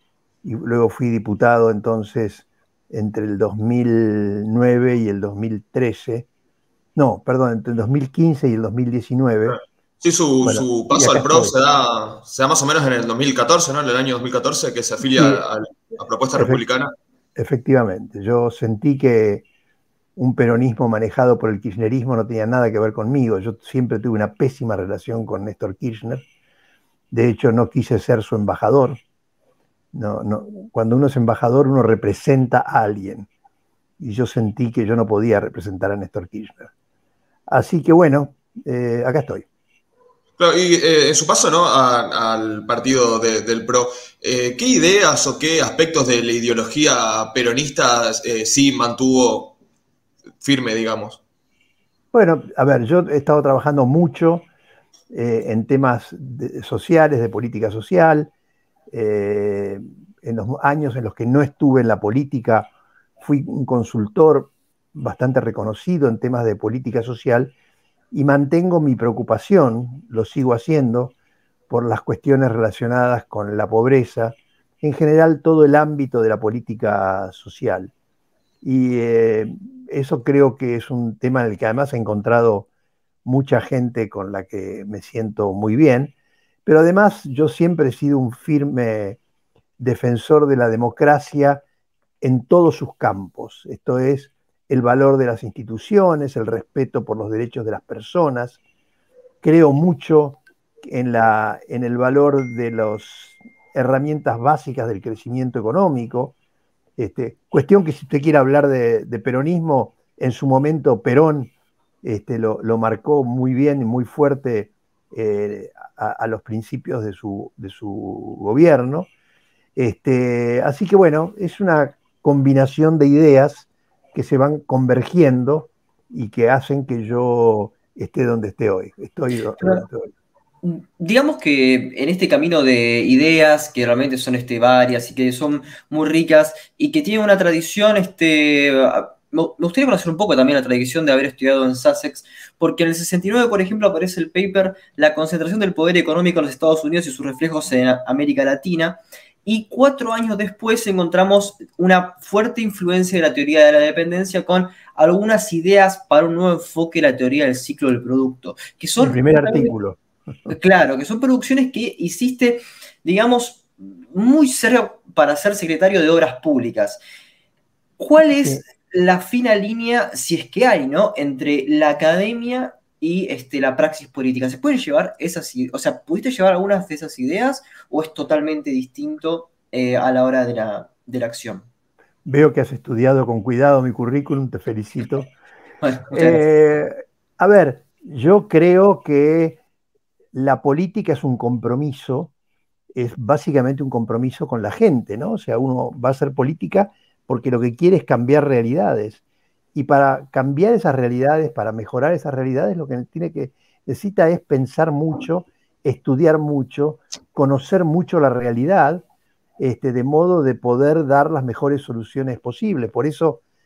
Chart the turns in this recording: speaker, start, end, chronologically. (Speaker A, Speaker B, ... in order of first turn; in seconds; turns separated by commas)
Speaker A: 0.4-6.3, Speaker A: 7.0-9.6, Speaker B: 9.5-16.9, Speaker A: 10.4-11.5, Speaker A: 15.0-15.4, Speaker A: 16.3-16.6, Speaker A: 17.4-19.4, Speaker A: 20.2-26.2, Speaker A: 27.1-29.0, Speaker A: 29.9-33.3, Speaker A: 34.0-36.7, Speaker A: 37.5-39.5, Speaker B: 40.4-49.5, Speaker B: 50.4-51.2, Speaker A: 52.1-54.5, Speaker A: 55.1-58.3, Speaker A: 58.9-67.5, Speaker A: 68.1-71.1, Speaker A: 71.7-77.9, Speaker A: 78.6-82.7, Speaker A: 83.2-86.1, Speaker A: 86.7-89.2, Speaker A: 89.8-91.6, Speaker A: 92.2-98.6, Speaker A: 99.4-106.3, Speaker A: 107.0-111.5, Speaker A: 112.0-119.1, Speaker A: 119.8-130.1, Speaker C: 130.6-159.7, Speaker A: 159.0-160.0, Speaker C: 160.5-167.0, Speaker C: 168.0-181.7, Speaker A: 168.2-168.6, Speaker A: 182.2-185.3, Speaker C: 185.8-186.4, Speaker A: 186.1-189.6, Speaker A: 190.3-192.3, Speaker A: 192.9-199.2, Speaker A: 199.7-209.0, Speaker A: 209.6-213.4